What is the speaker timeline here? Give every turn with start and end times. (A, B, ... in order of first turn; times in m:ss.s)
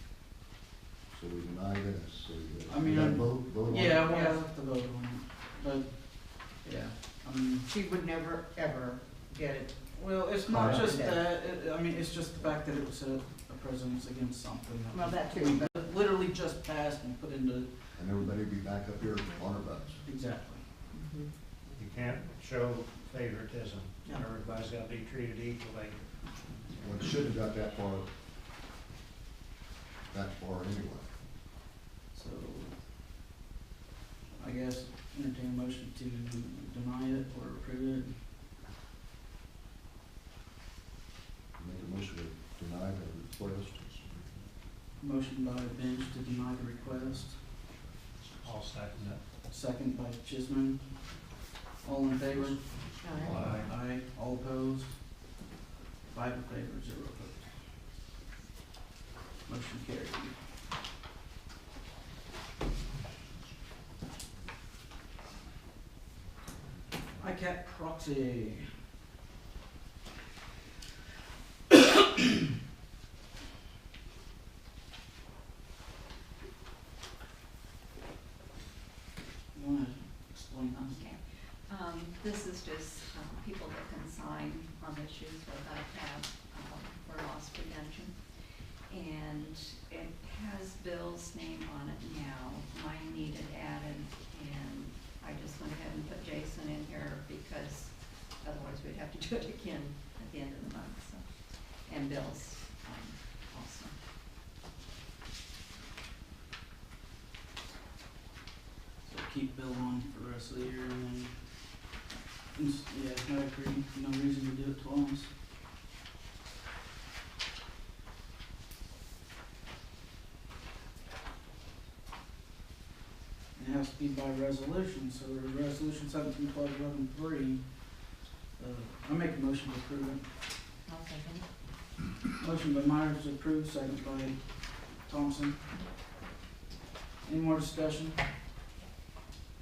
0:01.1-0:04.1 A
0:02.7-0:07.7 B
0:04.0-0:04.4 C
0:07.7-0:09.8 C
0:09.9-0:17.7 B
0:10.5-0:11.2 C
0:10.5-0:10.9 A
0:14.9-0:15.7 C
0:18.0-0:20.0 A
0:20.0-0:20.6 B
0:20.9-0:21.3 C
0:21.8-0:26.0 D
0:26.8-0:28.1 A
0:30.1-0:31.0 A
0:32.1-0:32.8 B
0:34.4-0:38.1 B
0:41.6-0:43.8 A
0:45.0-0:47.4 B
0:48.4-0:49.2 D
0:49.5-0:50.8 B
0:51.8-0:52.6 B
0:53.0-0:53.4 C
0:53.2-0:53.7 D
0:53.3-0:54.9 B
0:56.1-0:57.4 B
0:59.4-1:00.3 B
1:07.2-1:08.7 B
1:19.5-1:21.0 B
1:20.8-1:28.2 E
1:28.9-1:43.9 E
1:49.0-1:51.3 B
1:52.5-1:55.3 B
2:03.5-2:07.9 B
2:08.6-2:10.2 B
2:10.8-2:11.4 C
2:12.4-2:15.6 B
2:17.2-2:18.2 B